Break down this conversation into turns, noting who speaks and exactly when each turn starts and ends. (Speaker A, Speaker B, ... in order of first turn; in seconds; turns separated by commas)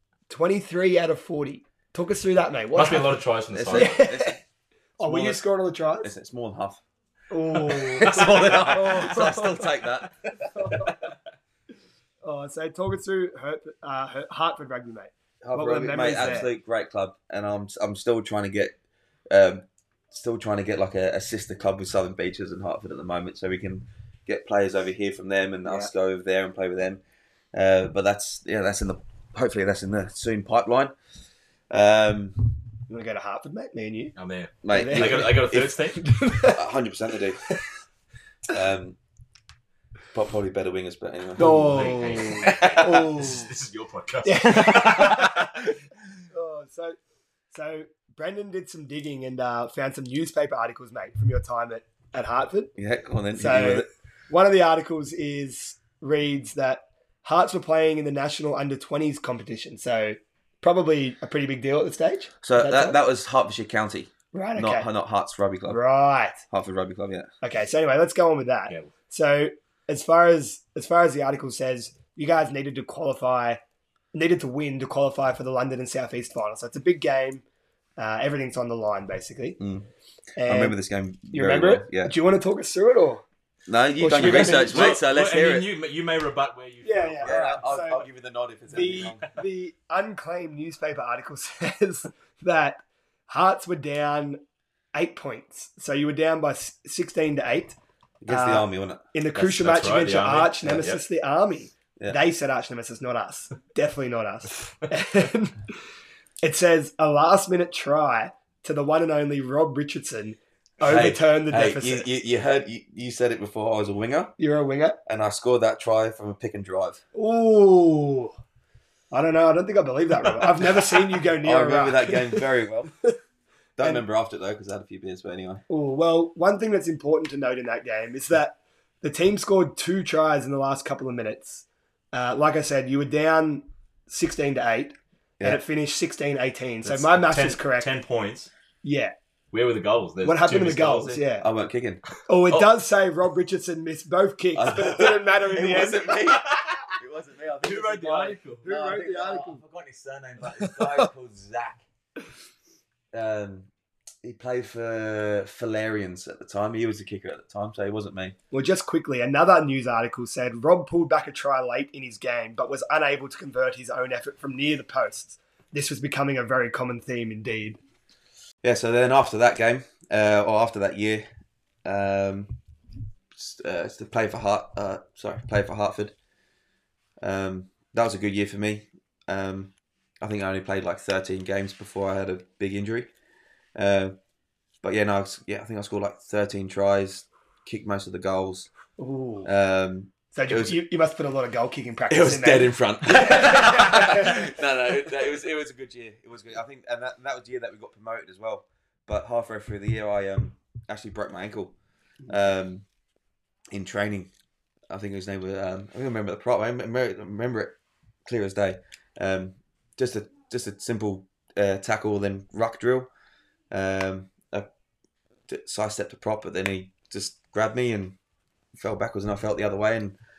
Speaker A: 0.3-3.2, Speaker B: 2.7-4.0, Speaker C: 3.5-4.4, Speaker A: 3.7-4.4, Speaker C: 5.0-5.4, Speaker A: 5.0-6.1, Speaker C: 6.0-6.8, Speaker A: 7.3-9.7, Speaker B: 7.7-9.3, Speaker C: 7.9-10.9, Speaker A: 10.4-11.1, Speaker A: 12.2-16.5, Speaker C: 15.4-18.8, Speaker C: 19.3-27.0, Speaker A: 25.6-25.9, Speaker C: 27.5-30.9, Speaker C: 31.7-32.5, Speaker A: 32.9-34.1, Speaker B: 34.2-36.1, Speaker C: 34.6-37.4, Speaker A: 34.7-35.4, Speaker A: 35.9-36.6, Speaker C: 38.5-39.0, Speaker C: 40.1-43.0, Speaker A: 41.4-43.5, Speaker B: 41.4-45.7, Speaker A: 44.2-45.7, Speaker A: 46.3-47.0, Speaker A: 47.5-52.7, Speaker C: 52.8-53.9, Speaker A: 53.3-63.0, Speaker C: 62.4-65.8, Speaker A: 64.3-64.9, Speaker A: 65.7-66.4, Speaker C: 66.5-67.3, Speaker A: 67.4-73.6, Speaker A: 74.1-77.4, Speaker A: 78.0-79.6, Speaker C: 79.6-79.9, Speaker A: 80.4-80.8, Speaker C: 80.4-82.2, Speaker A: 81.3-83.2, Speaker C: 83.7-85.7, Speaker A: 84.0-85.0, Speaker B: 84.2-87.3, Speaker A: 86.8-88.0, Speaker C: 87.2-89.3, Speaker A: 88.7-94.4, Speaker A: 94.9-97.8, Speaker C: 98.2-99.0, Speaker A: 98.3-105.8, Speaker B: 99.3-101.0, Speaker A: 106.4-112.1, Speaker C: 110.8-114.4, Speaker A: 114.4-115.0, Speaker C: 115.1-117.0, Speaker A: 117.1-118.3, Speaker A: 119.1-122.5, Speaker C: 121.4-122.9, Speaker C: 123.8-125.6, Speaker A: 125.7-137.9, Speaker B: 136.8-138.5, Speaker A: 138.8-139.1, Speaker B: 139.5-141.2, Speaker A: 140.2-141.5, Speaker C: 141.4-142.0, Speaker A: 142.3-146.2, Speaker C: 144.6-151.8, Speaker B: 146.3-146.8, Speaker B: 147.6-148.7, Speaker A: 148.6-149.6, Speaker C: 153.1-153.7, Speaker C: 154.2-158.3, Speaker A: 158.5-167.8, Speaker C: 168.6-171.2, Speaker C: 171.8-172.5, Speaker C: 173.3-176.2, Speaker C: 177.2-183.1, Speaker C: 183.8-184.2, Speaker C: 184.8-188.7, Speaker A: 189.0-189.5, Speaker C: 189.4-190.8, Speaker A: 190.3-194.5, Speaker C: 192.1-201.8, Speaker C: 202.3-202.8, Speaker C: 203.7-204.3, Speaker C: 204.9-213.1, Speaker C: 213.7-214.7, Speaker C: 215.5-218.2, Speaker C: 218.8-220.2